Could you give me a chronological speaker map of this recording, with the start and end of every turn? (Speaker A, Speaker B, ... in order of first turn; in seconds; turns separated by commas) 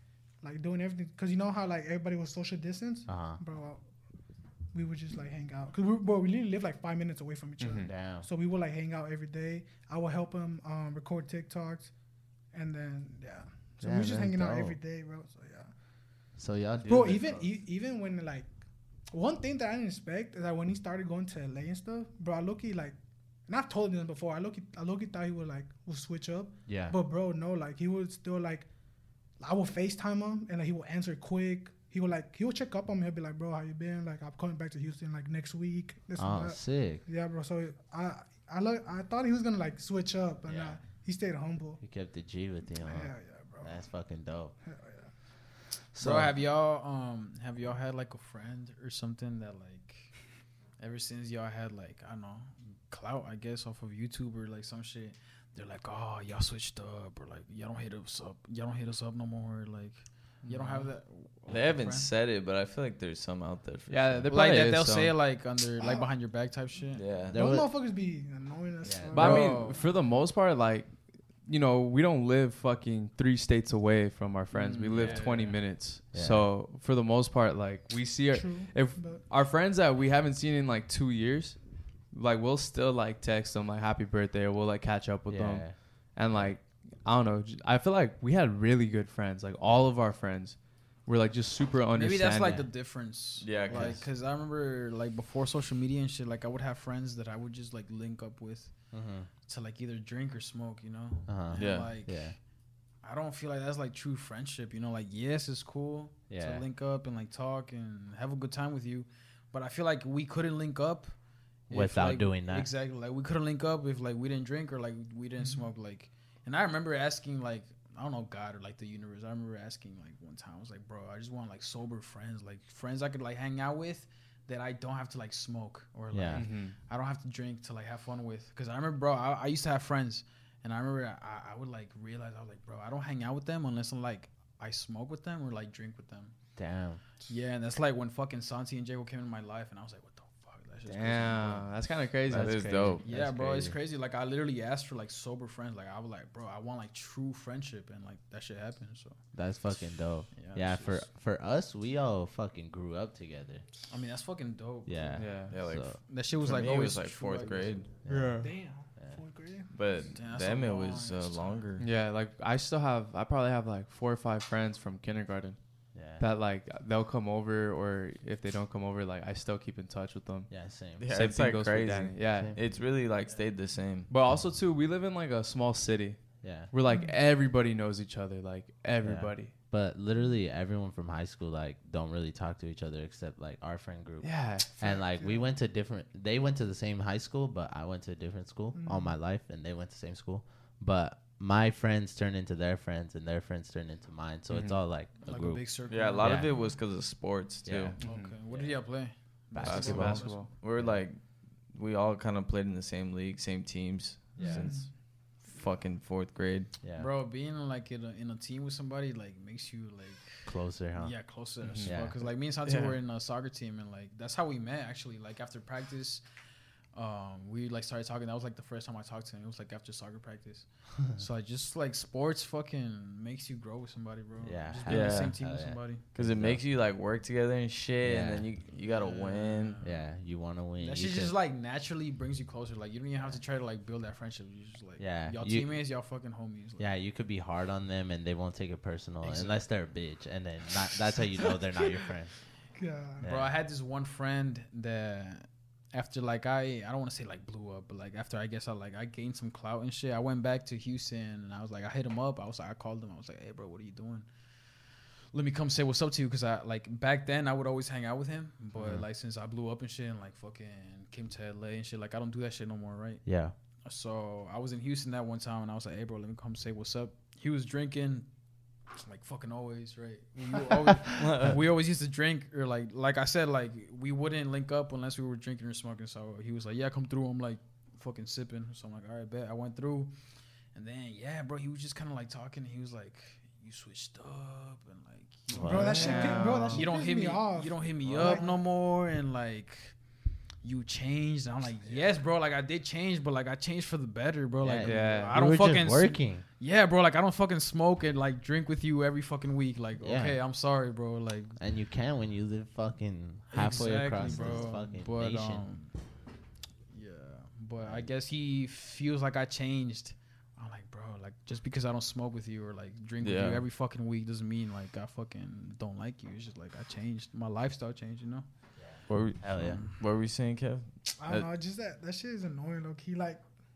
Speaker A: 0.4-3.9, Speaker B: 3.1-3.4, Speaker A: 4.7-11.9, Speaker C: 7.6-7.9, Speaker B: 7.8-8.2, Speaker A: 12.5-15.8, Speaker B: 13.8-14.8, Speaker B: 16.3-17.6, Speaker A: 16.9-18.5, Speaker A: 19.1-28.7, Speaker B: 26.7-26.9, Speaker A: 29.4-41.8, Speaker B: 36.2-37.0, Speaker B: 40.5-40.8, Speaker B: 41.8-44.5, Speaker A: 42.8-43.7, Speaker A: 44.6-45.0, Speaker B: 45.9-46.3, Speaker D: 46.0-50.2, Speaker D: 50.8-62.1, Speaker C: 60.4-60.9, Speaker E: 61.5-64.3, Speaker C: 63.9-65.2, Speaker D: 64.3-67.3, Speaker A: 65.8-66.1, Speaker E: 66.9-67.3, Speaker B: 67.2-67.7, Speaker A: 67.3-69.6, Speaker B: 68.8-69.3, Speaker C: 69.1-92.9, Speaker D: 69.2-69.8, Speaker E: 69.2-69.5, Speaker D: 74.5-75.8, Speaker B: 75.0-75.5, Speaker B: 76.1-76.5, Speaker A: 78.3-79.3, Speaker B: 85.3-86.5, Speaker D: 91.9-136.4, Speaker E: 93.4-93.9, Speaker B: 93.7-94.0, Speaker B: 98.9-99.3, Speaker B: 101.2-102.4, Speaker E: 101.5-101.9, Speaker B: 106.3-106.6, Speaker B: 111.7-112.7, Speaker B: 126.1-126.5, Speaker C: 126.3-126.8, Speaker B: 136.6-137.0, Speaker D: 137.3-142.0, Speaker C: 140.9-143.0, Speaker E: 142.3-143.0, Speaker B: 142.9-143.8, Speaker D: 143.0-149.2, Speaker B: 149.3-153.7, Speaker D: 150.3-151.1, Speaker D: 153.9-157.9, Speaker B: 154.8-156.0, Speaker C: 155.2-155.6, Speaker E: 155.5-157.9, Speaker B: 158.0-159.2, Speaker C: 158.1-158.5, Speaker A: 158.4-159.7, Speaker E: 159.7-161.8, Speaker D: 160.1-161.6, Speaker C: 161.8-172.5, Speaker B: 165.9-166.3, Speaker B: 170.5-171.0, Speaker E: 171.0-174.1, Speaker B: 172.3-172.6, Speaker C: 174.1-179.5, Speaker B: 176.4-176.7, Speaker A: 176.9-177.2, Speaker B: 179.0-196.5, Speaker C: 184.2-184.8, Speaker A: 184.7-185.5, Speaker A: 188.7-189.2, Speaker C: 194.5-194.8, Speaker D: 195.2-196.4, Speaker E: 195.9-198.0, Speaker B: 197.6-201.0, Speaker C: 198.0-198.3, Speaker D: 198.0-200.4, Speaker E: 199.6-206.7, Speaker C: 199.7-200.5, Speaker A: 204.4-204.9, Speaker B: 204.4-204.7, Speaker B: 206.8-207.1, Speaker D: 206.9-216.2, Speaker B: 210.4-212.2, Speaker C: 211.6-211.9, Speaker E: 212.6-212.9, Speaker D: 216.9-226.0, Speaker B: 224.4-226.6, Speaker E: 224.9-225.4, Speaker E: 226.1-229.8, Speaker B: 228.0-228.5, Speaker D: 228.7-230.1, Speaker B: 229.8-231.3, Speaker D: 230.8-236.9, Speaker B: 235.0-235.7, Speaker B: 236.8-242.4, Speaker D: 239.2-239.6, Speaker A: 242.8-243.2, Speaker B: 243.2-243.5, Speaker D: 243.2-254.3, Speaker D: 255.3-280.1, Speaker B: 258.8-259.1, Speaker B: 263.2-263.5, Speaker E: 271.2-271.6, Speaker D: 280.7-301.6, Speaker B: 285.5-286.5, Speaker A: 285.6-288.6, Speaker C: 286.0-286.9, Speaker E: 288.1-288.4, Speaker B: 294.6-296.4, Speaker C: 294.8-295.3, Speaker B: 300.0-300.4, Speaker B: 301.6-305.7, Speaker D: 303.5-305.9, Speaker D: 306.9-318.4, Speaker B: 307.8-308.1, Speaker E: 313.2-313.6, Speaker B: 318.8-319.8, Speaker E: 319.1-321.5, Speaker D: 319.5-319.9, Speaker A: 321.2-323.4